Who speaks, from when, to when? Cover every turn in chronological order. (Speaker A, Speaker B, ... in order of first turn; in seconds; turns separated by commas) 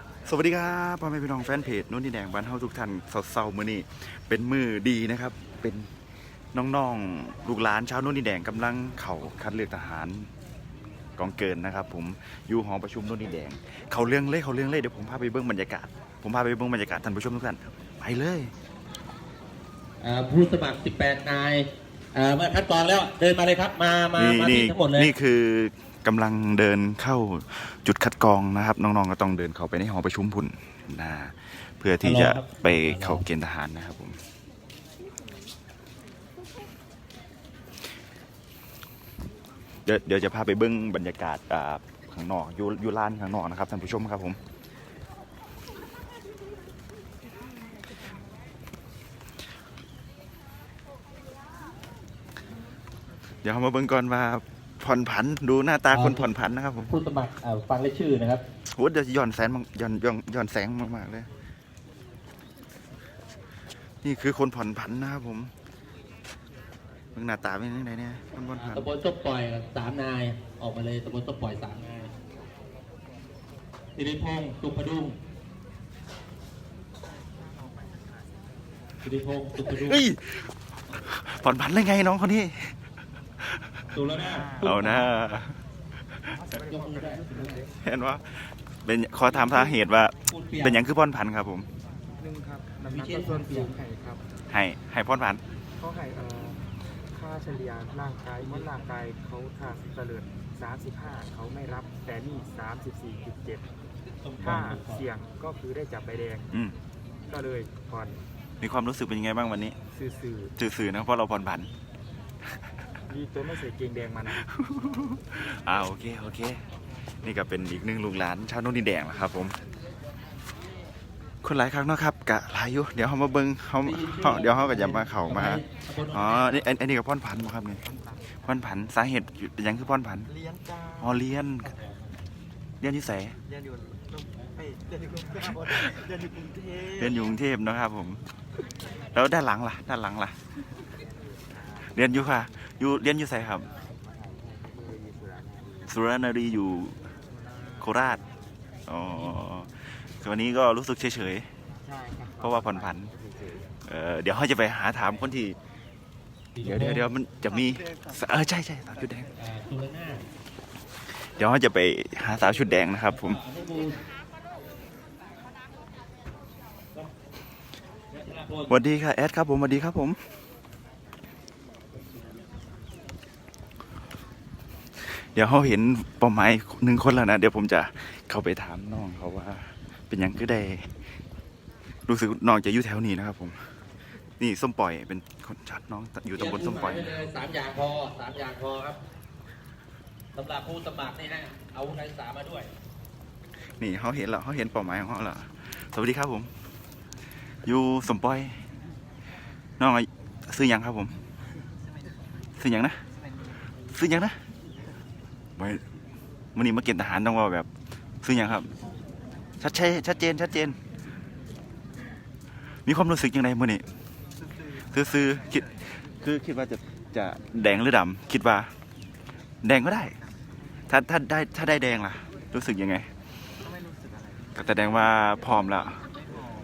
Speaker A: 0.3-5.9, Speaker A: 6.5-10.3, Speaker A: 11.2-18.5, Speaker B: 20.0-25.1, Speaker A: 24.2-34.2, Speaker B: 32.0-33.2, Speaker A: 39.9-44.4, Speaker A: 53.4-56.9, Speaker B: 55.9-56.3, Speaker B: 56.9-58.4, Speaker A: 58.7-61.3, Speaker A: 64.0-65.5, Speaker A: 67.2-68.9, Speaker B: 68.6-72.1, Speaker B: 74.0-75.2, Speaker B: 79.0-80.0, Speaker A: 79.7-82.8, Speaker A: 83.4-85.6, Speaker B: 83.9-85.1, Speaker C: 84.3-84.5, Speaker C: 86.5-87.7, Speaker B: 86.5-87.6, Speaker A: 87.8-91.7, Speaker B: 90.3-90.8, Speaker C: 92.2-94.2, Speaker B: 92.9-93.8, Speaker A: 94.5-95.4, Speaker C: 95.8-103.7, Speaker B: 104.2-105.0, Speaker A: 104.4-104.8, Speaker C: 104.4-106.5, Speaker C: 107.3-108.2, Speaker A: 108.6-109.8, Speaker C: 109.9-110.5, Speaker A: 110.6-111.7, Speaker C: 113.1-114.4, Speaker A: 114.3-116.6, Speaker A: 117.2-119.5, Speaker A: 121.4-127.8, Speaker B: 123.8-126.6, Speaker C: 127.9-128.2, Speaker A: 128.4-130.3, Speaker C: 130.5-131.0, Speaker A: 131.0-131.7, Speaker B: 131.7-132.0, Speaker A: 132.8-133.4, Speaker C: 133.5-137.0, Speaker A: 136.9-138.2, Speaker A: 139.1-140.4, Speaker A: 141.8-143.7, Speaker C: 144.1-145.9, Speaker A: 145.9-147.0, Speaker A: 147.8-148.2, Speaker A: 148.9-151.5, Speaker C: 151.8-153.7, Speaker A: 152.4-153.1, Speaker A: 153.8-155.6, Speaker B: 156.6-157.1, Speaker A: 156.6-159.3, Speaker B: 159.4-160.3, Speaker A: 161.4-163.4, Speaker B: 163.1-164.0, Speaker B: 168.1-168.8, Speaker A: 168.7-170.2, Speaker A: 175.0-180.9, Speaker A: 182.1-183.6, Speaker A: 184.4-187.3, Speaker B: 186.4-189.0, Speaker B: 190.3-192.7, Speaker A: 193.8-196.5, Speaker A: 197.7-198.6, Speaker A: 199.8-201.2, Speaker A: 202.6-203.0, Speaker A: 203.9-204.4, Speaker A: 205.6-205.8, Speaker A: 206.6-207.7, Speaker A: 208.2-208.7, Speaker A: 209.6-210.8, Speaker A: 212.9-213.8, Speaker C: 214.6-214.8, Speaker A: 214.8-218.7, Speaker A: 219.6-220.2, Speaker A: 220.9-223.1, Speaker C: 223.6-224.5, Speaker A: 224.6-226.0